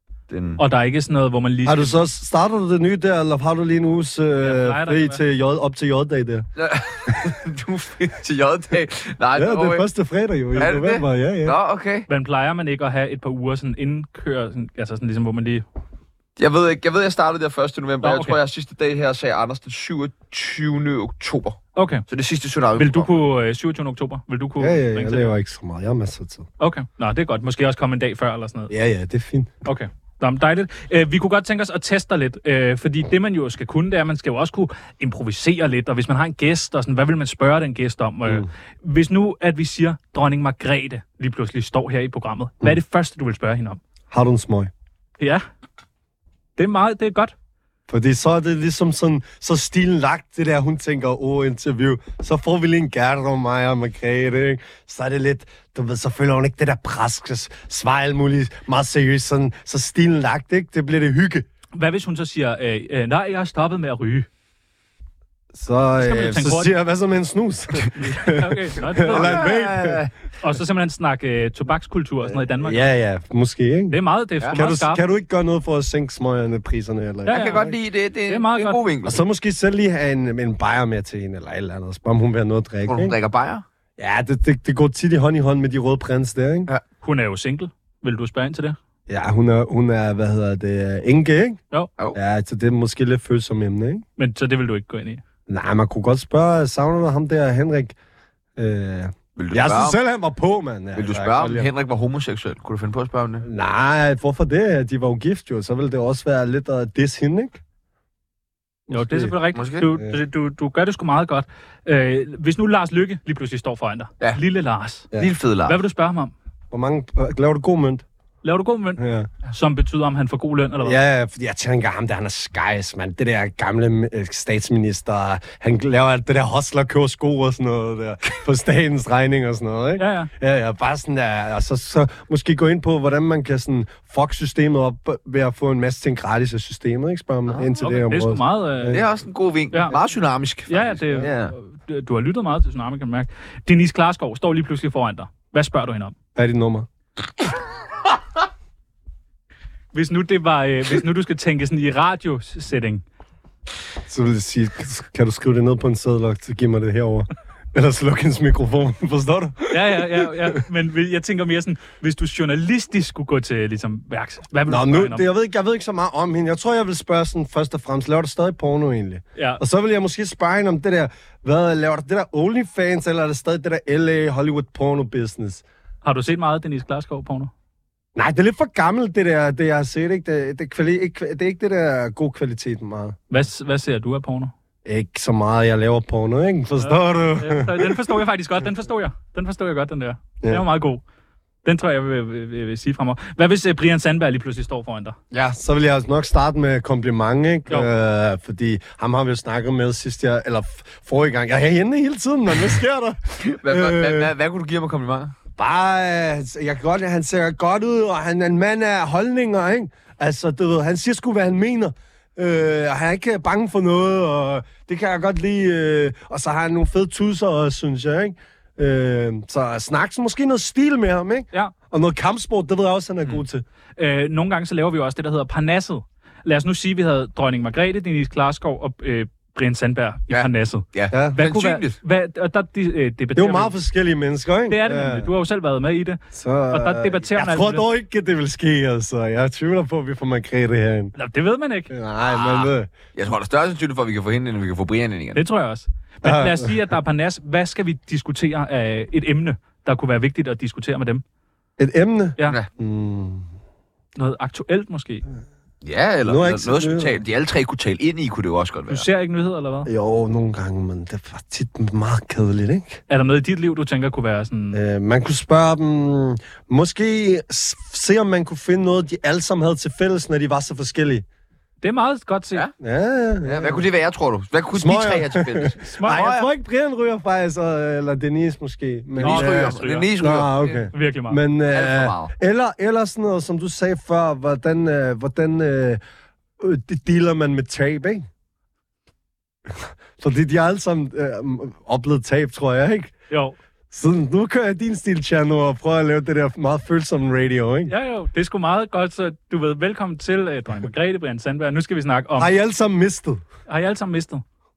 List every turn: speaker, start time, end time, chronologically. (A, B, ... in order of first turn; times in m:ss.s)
0:00.3-0:00.6 A
0:00.6-0:02.0 B
0:01.6-0:06.5 C
0:04.4-0:05.2 B
0:06.6-0:09.9 A
0:09.4-0:11.6 C
0:10.6-0:12.1 A
0:12.1-0:15.6 B
0:16.4-0:23.1 A
0:18.0-0:18.4 B
0:21.8-0:22.0 B
0:22.8-0:25.3 B
0:24.6-0:26.5 C
0:26.6-0:28.7 B
0:28.7-0:29.5 C
0:29.6-0:43.8 B
0:44.1-0:44.7 C
0:45.2-0:45.4 B
0:46.6-0:47.3 B
0:47.9-1:01.5 C
1:01.8-1:04.3 B
1:05.5-1:10.0 C
1:06.0-1:06.7 B
1:08.0-1:09.5 B
1:09.1-1:10.1 A
1:10.4-1:12.9 B
1:12.5-1:14.0 C
1:13.9-1:15.0 B
1:14.5-1:17.6 C
1:17.3-1:17.7 B
1:17.3-1:19.2 A
1:18.3-1:18.8 B
1:19.0-1:23.2 C
1:22.9-1:23.6 A
1:24.0-1:26.7 C
1:27.0-1:28.8 B
1:29.1-1:31.6 C
1:32.1-1:34.0 C
1:34.2-1:35.2 B
1:35.5-1:38.0 C
1:38.6-1:41.7 C
1:39.4-1:40.0 A
1:41.0-1:43.5 A
1:43.4-1:47.6 C
1:48.9-1:49.3 C
1:48.9-1:55.1 B
1:49.6-1:49.9 A
1:55.2-1:55.8 A
1:55.7-1:56.3 B
1:56.7-1:58.0 C
1:58.4-2:01.0 B
1:59.0-1:59.3 C
2:00.8-2:19.0 C
2:10.0-2:10.3 B
2:17.8-2:19.0 B
2:18.9-2:21.5 A
2:20.7-2:26.2 B
2:26.4-2:26.9 C
2:29.9-2:33.0 B
2:34.1-2:40.3 C
2:39.7-2:45.3 B
2:44.7-2:55.6 C
2:56.0-2:57.5 B
2:58.2-3:03.2 C
3:03.3-3:04.5 B
3:04.8-3:08.0 C
3:06.8-3:11.0 B
3:11.6-3:15.2 B
3:15.3-3:24.3 C
3:23.4-3:25.3 A
3:25.6-3:43.6 C
3:44.0-3:53.7 B
3:50.3-3:52.0 A
3:51.1-3:51.4 C
3:53.4-3:55.3 C
3:54.7-3:57.8 B
3:56.3-4:01.2 C
4:01.2-4:01.9 B
4:01.9-4:02.9 C
4:02.3-4:05.4 A
4:05.4-4:11.2 B
4:06.2-4:06.8 C
4:11.8-4:13.5 C
4:14.2-4:15.2 B
4:15.8-4:19.1 A
4:16.2-4:17.2 C
4:18.9-4:19.9 B
4:19.9-4:23.0 C
4:23.1-4:24.8 B
4:24.7-4:31.2 C
4:31.8-4:32.6 B
4:32.8-4:33.8 C
4:33.4-4:36.5 A
4:34.7-4:46.0 C
4:35.8-4:36.2 B
4:39.2-4:40.9 A
4:39.2-4:40.1 B
4:40.9-4:41.4 B
4:41.7-4:42.3 A
4:46.6-4:48.3 C
4:49.7-4:53.1 C
4:53.3-4:53.6 B
4:53.9-4:57.9 C
4:57.9-5:02.5 B
5:02.4-5:03.4 C
5:03.7-5:04.4 B